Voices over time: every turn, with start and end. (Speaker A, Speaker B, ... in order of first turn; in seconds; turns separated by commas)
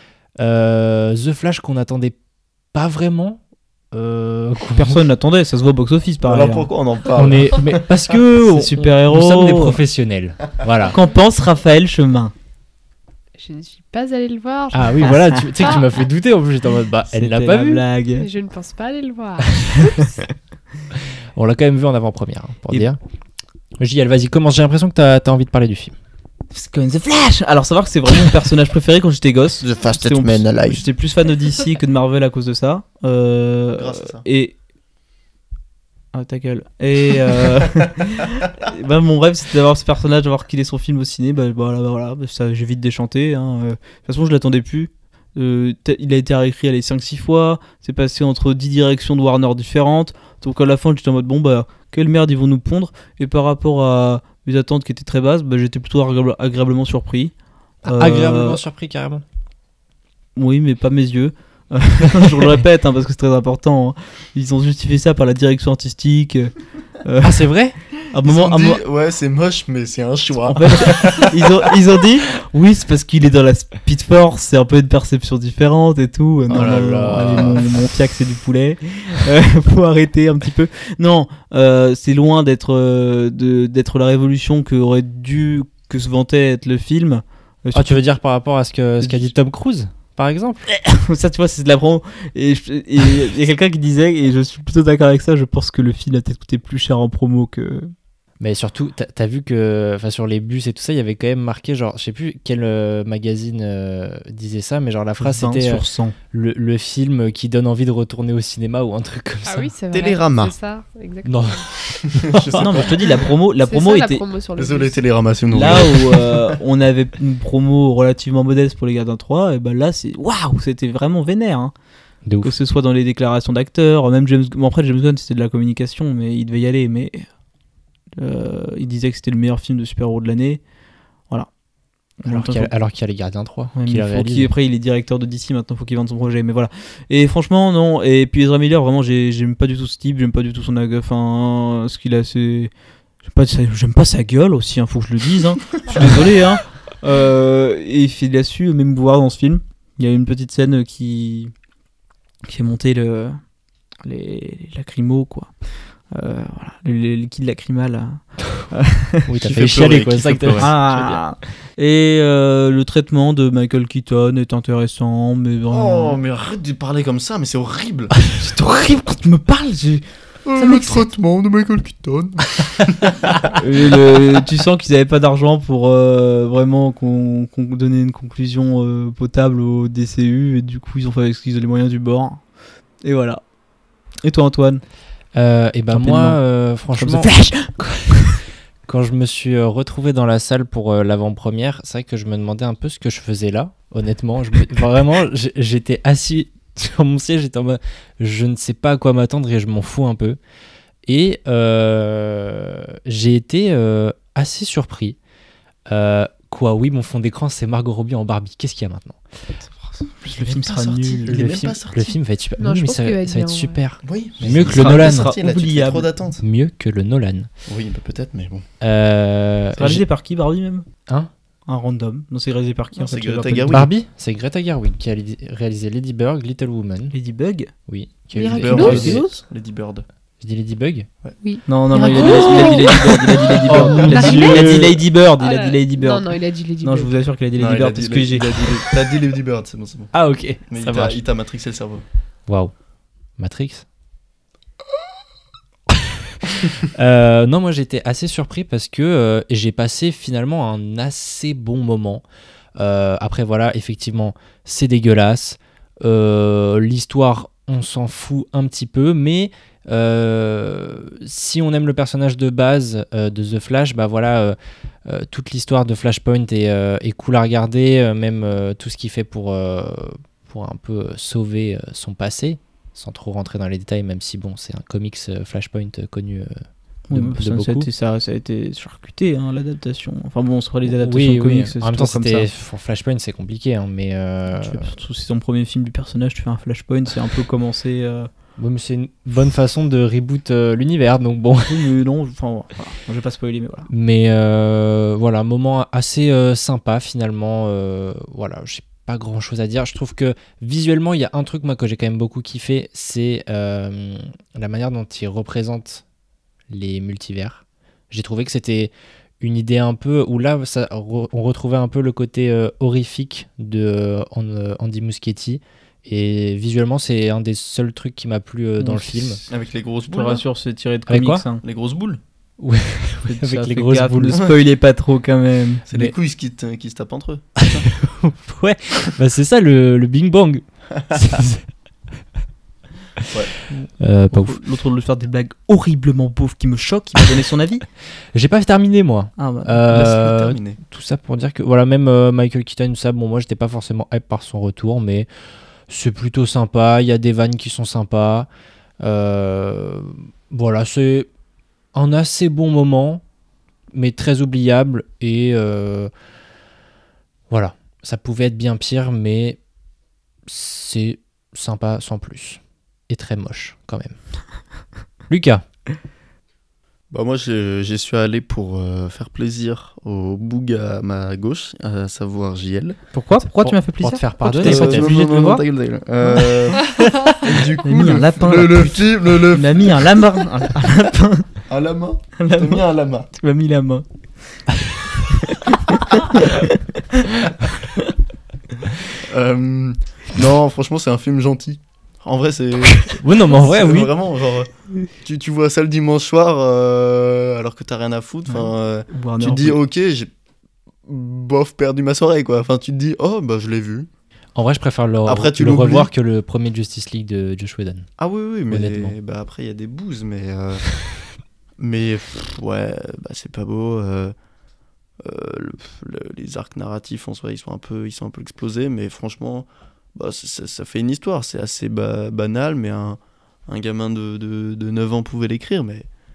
Speaker A: 0.4-2.2, Speaker A: 2.7-3.4, Speaker A: 3.9-5.0, Speaker B: 4.8-6.7, Speaker C: 6.2-7.9, Speaker A: 7.1-11.0, Speaker B: 8.4-9.8, Speaker B: 10.9-12.3, Speaker D: 13.4-15.8, Speaker A: 14.7-17.8, Speaker B: 17.1-18.3, Speaker D: 18.2-20.2, Speaker A: 21.4-23.0, Speaker A: 23.8-25.9, Speaker B: 26.5-34.5, Speaker C: 29.6-30.8, Speaker C: 33.8-34.2, Speaker B: 36.1-57.3, Speaker B: 57.9-58.6, Speaker A: 57.9-59.2, Speaker B: 60.4-66.5, Speaker B: 67.0-67.5, Speaker A: 67.2-67.8, Speaker B: 68.1-68.8, Speaker C: 68.2-71.5, Speaker B: 70.5-88.0, Speaker A: 76.5-77.6, Speaker C: 76.5-77.6, Speaker A: 87.7-90.7, Speaker B: 89.0-89.3, Speaker B: 90.7-97.9, Speaker A: 98.4-109.7, Speaker B: 105.2-106.2, Speaker D: 109.5-111.6, Speaker C: 109.9-110.5, Speaker A: 111.2-112.8, Speaker C: 112.1-113.2, Speaker B: 112.6-114.2, Speaker D: 113.6-115.0, Speaker C: 114.6-116.6, Speaker B: 115.5-121.7, Speaker A: 122.3-122.5, Speaker B: 122.4-127.3, Speaker B: 128.2-130.6, Speaker B: 132.2-132.7, Speaker A: 132.2-134.5, Speaker B: 133.8-142.7, Speaker B: 143.2-151.5, Speaker B: 152.5-153.4, Speaker B: 154.0-155.5, Speaker B: 156.1-159.4, Speaker A: 159.3-161.2, Speaker C: 159.4-160.8, Speaker B: 160.6-166.2, Speaker C: 165.7-168.1, Speaker B: 168.3-170.1, Speaker C: 170.4-173.5, Speaker B: 170.6-171.1, Speaker B: 173.5-182.4, Speaker B: 183.0-183.4, Speaker B: 184.2-184.8, Speaker A: 185.3-187.9, Speaker B: 185.9-186.4, Speaker B: 187.0-188.4, Speaker A: 188.9-200.4, Speaker A: 201.1-205.2, Speaker A: 205.9-209.2, Speaker B: 209.6-211.4, Speaker C: 210.3-212.2, Speaker A: 211.3-215.3, Speaker D: 212.6-213.8, Speaker C: 214.0-216.4, Speaker B: 214.5-216.1, Speaker A: 216.4-217.5, Speaker C: 217.7-218.7, Speaker A: 218.8-220.1, Speaker B: 219.8-220.9, Speaker B: 221.7-223.8, Speaker C: 223.0-223.9, Speaker A: 223.7-227.2, Speaker B: 227.1-227.7, Speaker A: 227.9-229.2, Speaker D: 228.3-229.1, Speaker C: 228.5-230.1, Speaker B: 228.7-229.4, Speaker A: 230.4-231.1, Speaker D: 231.4-234.9, Speaker B: 231.7-238.9, Speaker A: 233.6-235.0, Speaker D: 235.4-237.1, Speaker C: 237.6-240.1, Speaker A: 240.1-241.2, Speaker C: 240.7-242.0, Speaker A: 242.5-242.7, Speaker A: 243.4-243.8, Speaker A: 246.4-252.2, Speaker A: 252.8-277.9, Speaker B: 277.1-282.5, Speaker A: 280.9-284.9, Speaker B: 284.5-288.3, Speaker A: 288.6-291.9, Speaker B: 291.7-293.9, Speaker A: 293.9-306.0, Speaker A: 306.7-319.4, Speaker B: 318.8-319.4, Speaker C: 319.5-320.4, Speaker B: 320.1-321.6, Speaker A: 321.1-321.4, Speaker C: 321.6-322.2, Speaker A: 322.6-324.4, Speaker B: 323.3-325.9, Speaker C: 325.9-327.9, Speaker A: 327.6-331.6, Speaker B: 333.7-337.8, Speaker A: 334.0-334.6, Speaker A: 338.3-345.3, Speaker B: 339.4-339.8, Speaker C: 339.9-340.8, Speaker A: 345.9-348.5, Speaker A: 349.0-351.3, Speaker A: 351.9-353.2, Speaker A: 353.9-356.1, Speaker A: 357.5-359.6, Speaker A: 360.5-364.2, Speaker A: 365.3-365.6, Speaker C: 367.1-373.0, Speaker A: 373.1-375.1, Speaker B: 373.3-375.6, Speaker C: 374.6-380.2, Speaker B: 376.2-376.6, Speaker B: 377.8-381.5, Speaker C: 381.7-383.3, Speaker B: 382.4-384.6, Speaker B: 385.3-386.7, Speaker C: 389.3-400.3, Speaker A: 393.1-394.1, Speaker B: 398.5-399.8, Speaker C: 401.1-404.1, Speaker A: 404.6-408.1, Speaker C: 405.3-406.1, Speaker C: 408.2-410.9, Speaker A: 408.7-409.1, Speaker C: 411.8-414.4, Speaker C: 415.2-426.1